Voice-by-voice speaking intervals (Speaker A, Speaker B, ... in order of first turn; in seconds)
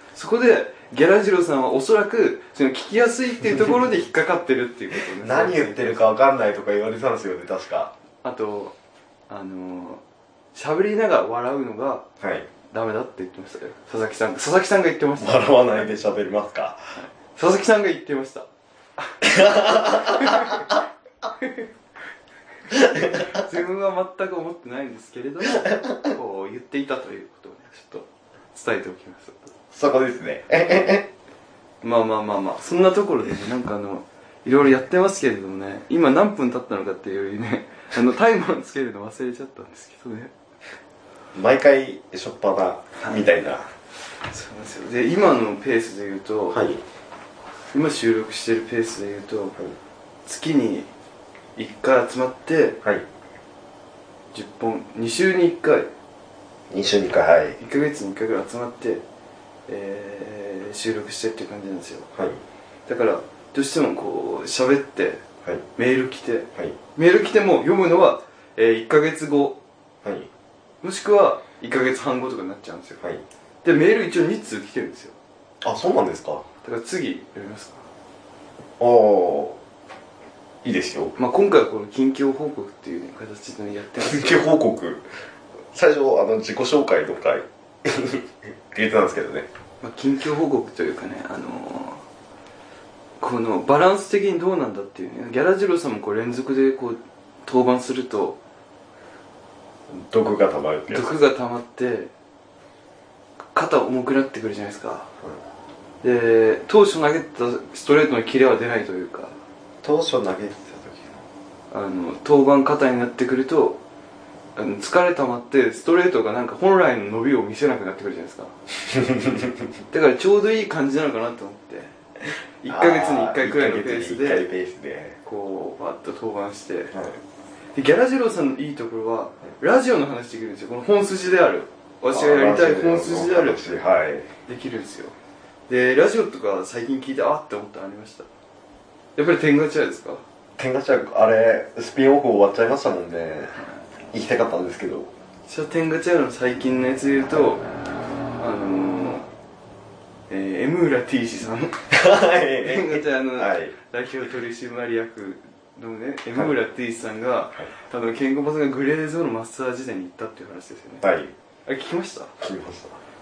Speaker A: 0.1-6.1, 8.2-8.7, 9.3-10.0, 10.5-12.1, 12.7-15.8, 16.9-18.5, 19.0-21.7, 22.7-29.5, 31.8-40.3, 43.0-43.3, 44.3-46.6, 47.7-49.6, 50.2-50.9, 51.5-52.8, 54.3-55.9, 57.6-59.0, 59.7-62.1, 62.9-65.2, 65.8-69.6, 70.8-73.0, 73.6-75.2, 76.6-77.8, 81.2-84.4, 89.8-92.0, 93.2-98.4, 100.9-102.1, 103.5-105.1, 106.0-109.4, 111.7-113.8, 114.5-118.5, 119.9-121.9, 122.6-124.5, 125.2-126.9, 127.7-133.8, 134.4-135.1, 135.7-138.3, 139.2-140.2, 145.4-147.7, 148.4-149.3, 150.3-151.8, 152.6-161.0, 161.7-162.3
Speaker B: 5.2-7.9, 12.2-12.5, 15.2-16.9, 19.2-20.8, 22.7-23.4, 25.6-26.1, 29.7-31.1, 41.3-43.7, 46.5-46.8, 56.7-57.6, 62.1-62.4, 70.0-70.3, 75.6-76.4, 78.8-79.6, 80.6-81.1, 84.0-85.0, 85.7-89.5, 99.9-101.1, 109.8-111.2, 118.8-119.7, 122.7-125.2, 126.9-127.2, 132.1-134.3, 140.6-145.1, 151.9-153.7, 161.0-161.3, 162.4-163.0